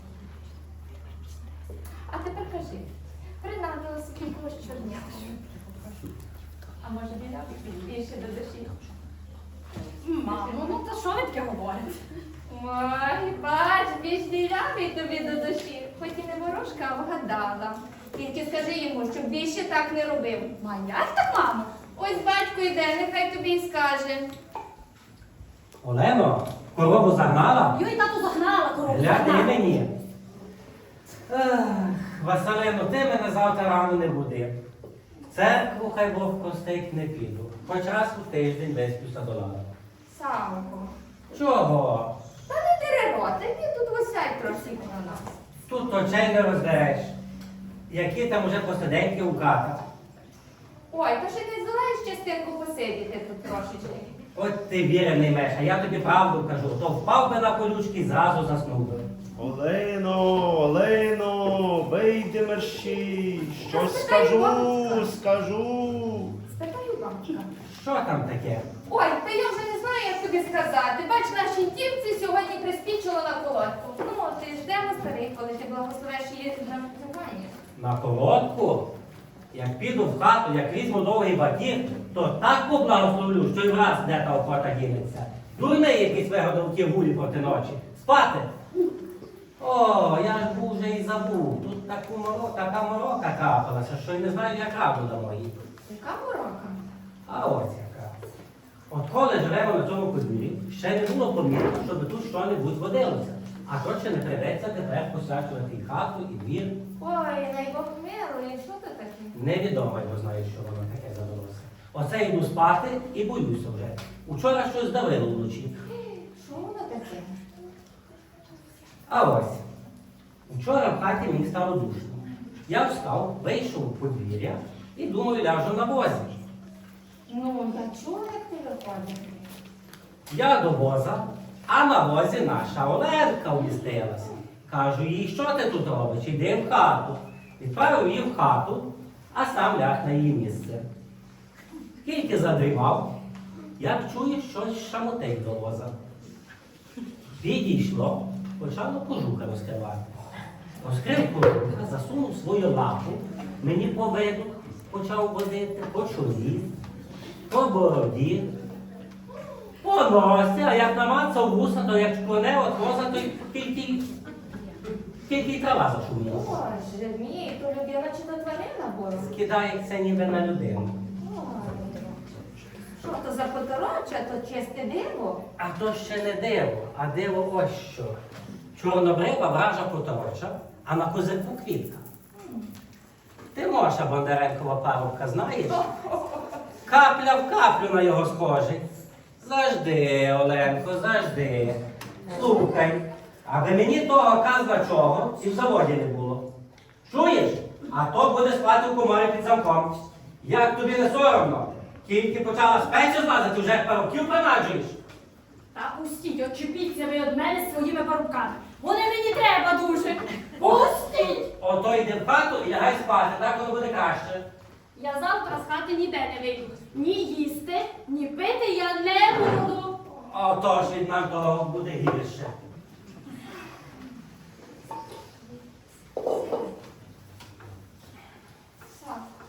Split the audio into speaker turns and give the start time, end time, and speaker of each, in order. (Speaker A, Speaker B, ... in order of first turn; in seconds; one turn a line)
Speaker A: 2.1-2.9
Speaker A: 3.4-5.5
Speaker A: 6.8-8.9
Speaker B: 10.0-12.0
Speaker A: 10.3-10.8
Speaker A: 12.5-20.5
Speaker B: 20.6-21.7
Speaker A: 21.9-24.3
Speaker C: 25.8-27.8
Speaker B: 27.7-29.6
Speaker C: 28.8-29.9
Speaker C: 31.3-34.5
Speaker C: 35.3-39.7
Speaker A: 40.1-40.9
Speaker C: 41.3-42.1
Speaker A: 42.5-45.4
Speaker C: 45.7-47.1
Speaker C: 47.9-49.8
Speaker A: 50.9-54.2
Speaker C: 54.3-59.0
Speaker D: 59.4-66.3
Speaker A: 63.7-65.1
Speaker A: 66.5-67.5
Speaker C: 67.7-68.7
Speaker A: 68.9-77.5
Speaker C: 77.8-78.9
Speaker C: 79.5-88.5
Speaker C: 89.6-95.5
Speaker A: 95.8-96.8
Speaker C: 97.2-98.1
Speaker C: 98.9-106.8
Speaker A: 107.0-109.3
Speaker C: 109.3-115.8
Speaker A: 115.8-117.3
Speaker C: 119.1-119.6
Speaker C: 120.5-126.4
Speaker A: 127.3-129.4
Speaker C: 130.3-140.8
Speaker C: 142.0-143.1
Speaker C: 143.8-145.9
Speaker C: 147.4-150.2
Speaker C: 150.8-156.7
Speaker C: 157.5-158.5
Speaker C: 159.8-164.1
Speaker C: 165.2-166.5
Speaker A: 166.3-169.3
Speaker C: 169.2-170.9
Speaker A: 171.2-172.4
Speaker A: 173.0-175.4
Speaker C: 175.6-178.2
Speaker C: 178.7-182.0
Speaker C: 183.5-185.8
Speaker A: 185.7-186.6
Speaker C: 186.8-188.8
Speaker C: 189.4-196.4
Speaker C: 197.1-205.0
Speaker B: 205.7-211.5
Speaker C: 210.6-214.4
Speaker B: 214.9-220.0
Speaker C: 220.3-222.6
Speaker A: 226.4-226.7
Speaker A: 228.9-229.3